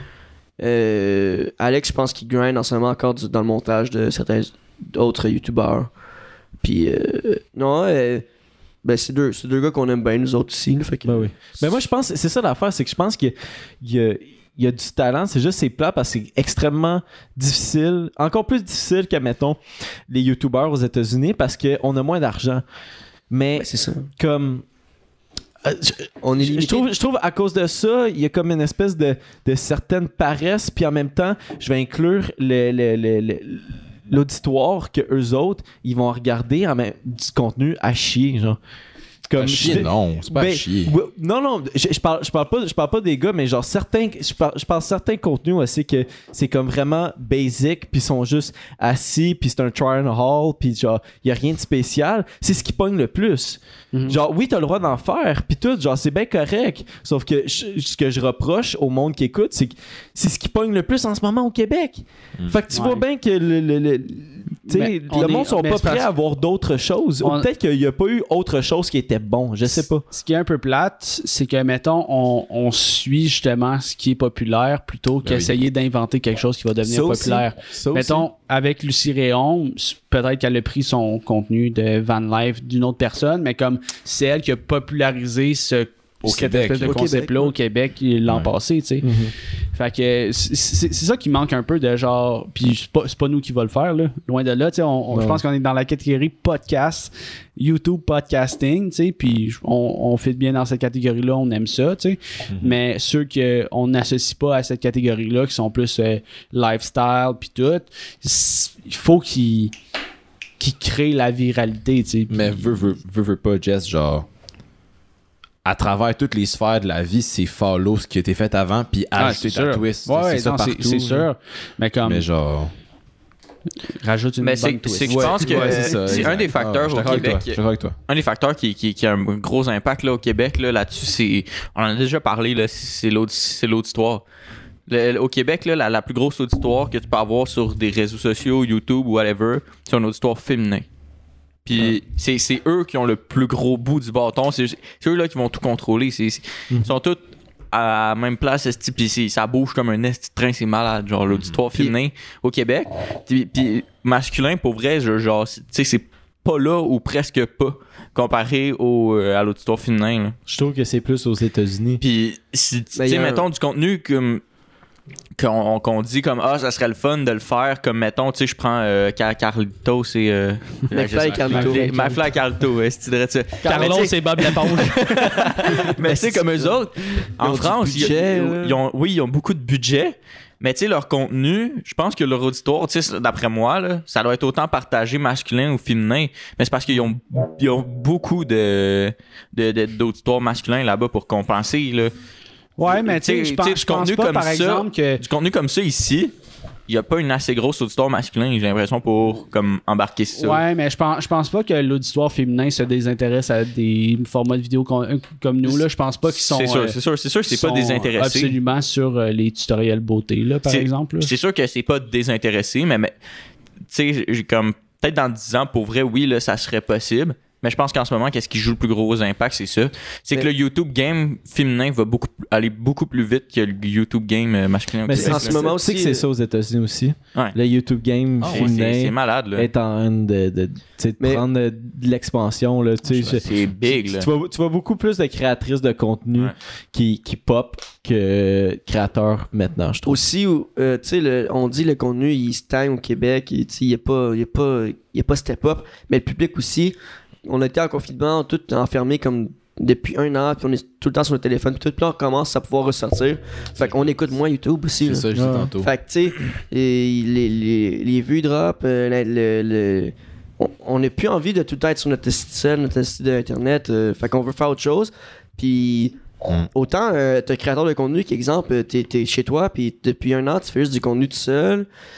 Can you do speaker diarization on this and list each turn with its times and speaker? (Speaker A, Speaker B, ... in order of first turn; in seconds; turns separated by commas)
Speaker A: 0.6-5.9, Speaker A: 6.6-8.2, Speaker A: 8.8-11.7, Speaker B: 11.1-22.6, Speaker B: 23.3-24.6, Speaker A: 23.6-24.1, Speaker B: 25.6-38.6, Speaker A: 26.2-26.9, Speaker B: 39.3-70.0, Speaker C: 39.4-40.9, Speaker D: 53.9-54.2, Speaker D: 62.7-63.0, Speaker D: 64.7-66.1, Speaker D: 67.2-67.5, Speaker D: 70.0-89.2, Speaker C: 75.2-75.5, Speaker B: 76.8-78.2, Speaker C: 86.2-87.1, Speaker A: 86.8-87.5, Speaker B: 89.0-89.3, Speaker D: 89.7-109.7, Speaker B: 95.1-95.4, Speaker C: 102.5-102.8, Speaker D: 110.6-112.8, Speaker C: 112.3-114.3, Speaker C: 115.7-121.3, Speaker D: 119.2-122.2, Speaker C: 122.0-122.7, Speaker D: 124.0-126.3, Speaker E: 124.4-134.2, Speaker C: 125.1-128.0, Speaker E: 134.9-140.9, Speaker E: 141.7-147.2, Speaker E: 147.7-160.4, Speaker C: 151.3-151.6, Speaker B: 160.5-162.0, Speaker E: 162.0-164.4, Speaker A: 163.0-163.4, Speaker E: 165.4-192.1, Speaker A: 170.9-171.9, Speaker D: 171.5-172.2, Speaker A: 173.6-174.2, Speaker D: 173.6-176.0, Speaker A: 175.7-176.8, Speaker A: 177.4-178.8, Speaker D: 192.8-195.2, Speaker E: 192.9-196.3, Speaker E: 196.9-200.6, Speaker D: 200.4-207.0, Speaker E: 205.7-208.6, Speaker D: 207.5-211.3, Speaker E: 210.7-213.1, Speaker E: 213.9-225.6, Speaker B: 225.1-240.2, Speaker A: 225.1-226.2, Speaker C: 228.4-228.7, Speaker E: 228.5-229.7, Speaker C: 233.1-233.6, Speaker E: 233.3-234.3, Speaker A: 240.1-255.3, Speaker C: 255.0-255.9, Speaker B: 255.3-255.7, Speaker A: 255.8-266.2, Speaker A: 266.7-271.9